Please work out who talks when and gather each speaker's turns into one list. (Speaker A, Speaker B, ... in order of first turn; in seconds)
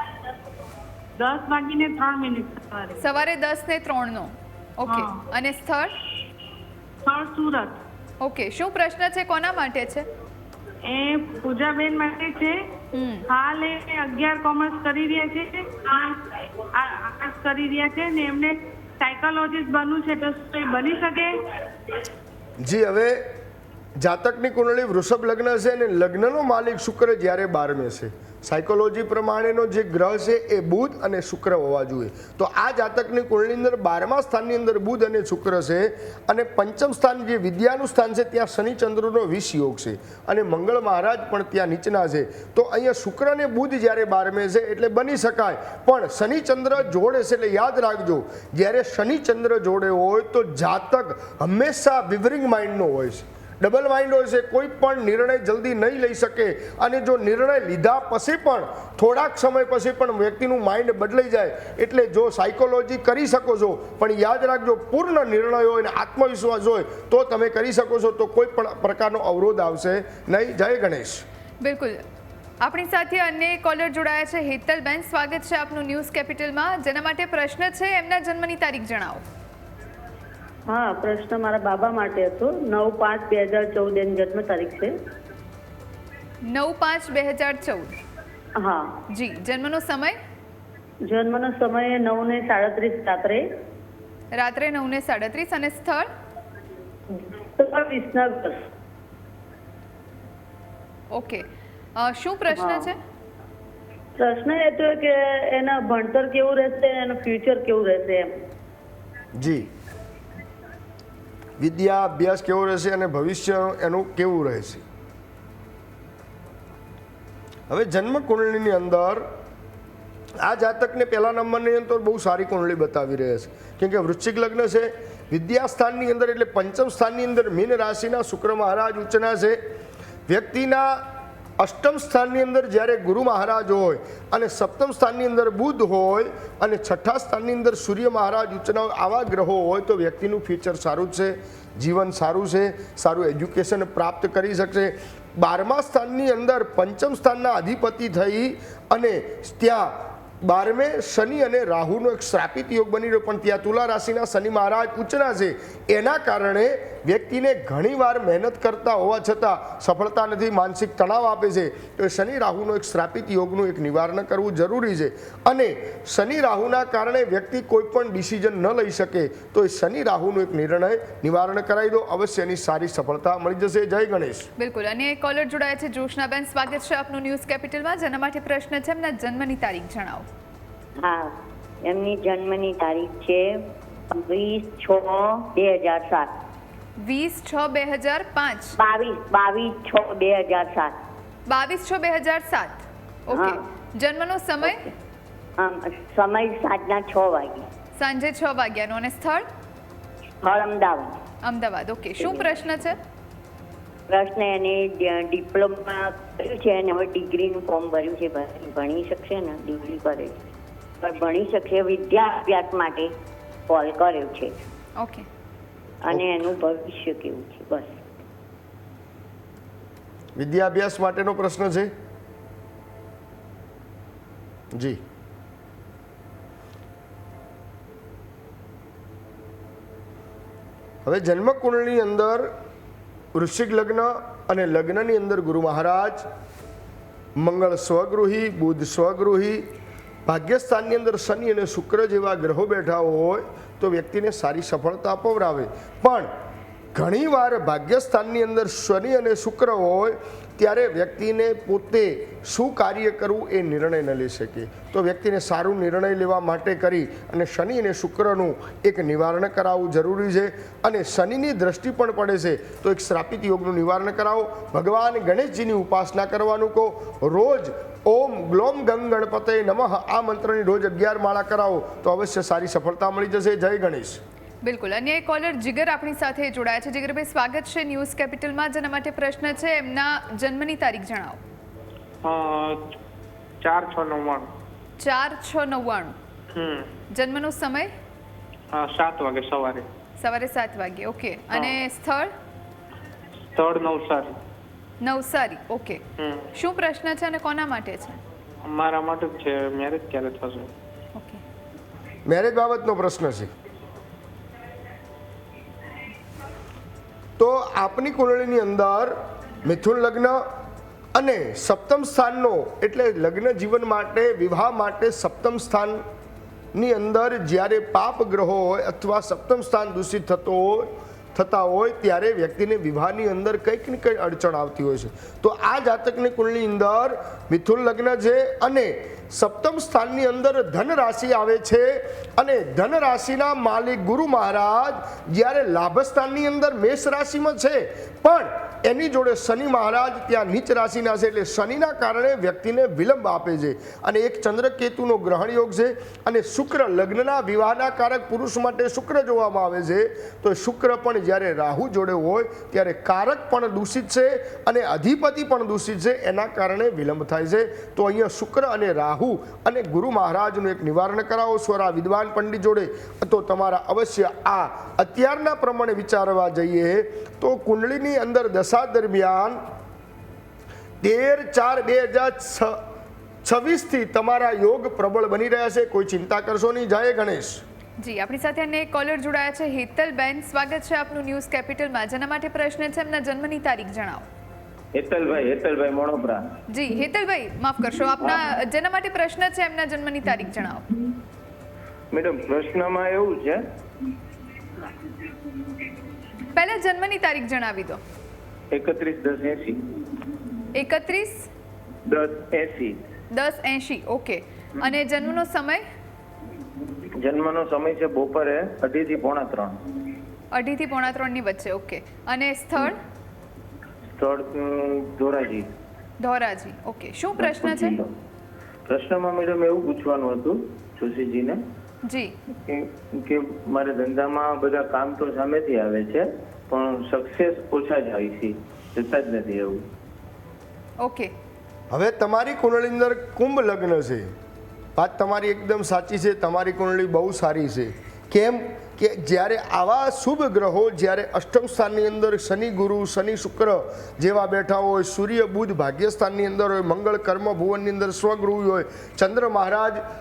Speaker A: 1.2-3.0, 4.9-5.2, 7.1-7.8, 10.9-12.6, 13.3-21.3
Speaker B: 3.0-5.9, 8.2-10.1, 12.9-13.2, 71.6-72.0, 72.6-79.2, 86.5-87.9, 89.1-90.2, 94.3-96.1, 101.1-101.5, 102.0-103.0, 174.6-180.2, 187.0-188.8, 191.5-194.8, 198.0-199.5, 201.4-203.0, 215.0-215.2, 274.6-281.4, 285.0-286.1, 287.1-287.9, 290.2-292.3, 295.0-296.0, 296.5-298.2, 301.2-301.4, 378.0-384.2, 386.7-390.9, 396.5-398.0, 400.7-401.5, 403.3-405.8, 410.5-413.0, 416.2-418.0, 422.1-422.3, 431.0-431.3
Speaker C: 22.6-23.2, 24.0-71.2, 109.3-109.7, 111.6-114.8, 117.7-119.3, 120.4-129.6, 130.3-131.1, 131.6-174.5, 220.4-221.9, 224.7-225.0, 231.0-232.5, 233.3-236.2, 237.4-239.7, 240.2-246.3, 246.9-274.2, 302.2-303.5, 307.4-310.4, 311.1-316.0, 316.8-369.6, 371.0-372.8, 373.4-377.6, 431.9-434.3, 435.0-450.0
Speaker D: 80.7-84.9, 88.6-88.9, 91.1-93.4, 97.1-98.7, 102.6-102.8, 104.2-108.3
Speaker E: 181.0-186.3, 188.8-191.0, 193.3-193.6, 194.7-194.9, 195.6-197.7, 200.4-201.2, 202.2-202.5, 204.1-210.4, 211.0-213.1, 213.7-214.5, 216.0-218.0
Speaker F: 282.2-282.9, 283.6-284.5, 286.5-286.9, 288.7-289.9, 291.5-291.8, 293.5-294.4, 296.2-296.5, 298.6-300.7
Speaker G: 385.0-386.4, 388.2-388.5, 392.1-393.6, 398.7-399.9, 402.0-403.0, 407.2-409.8, 414.1-415.7, 417.4-418.1, 418.9-421.6, 422.5-429.8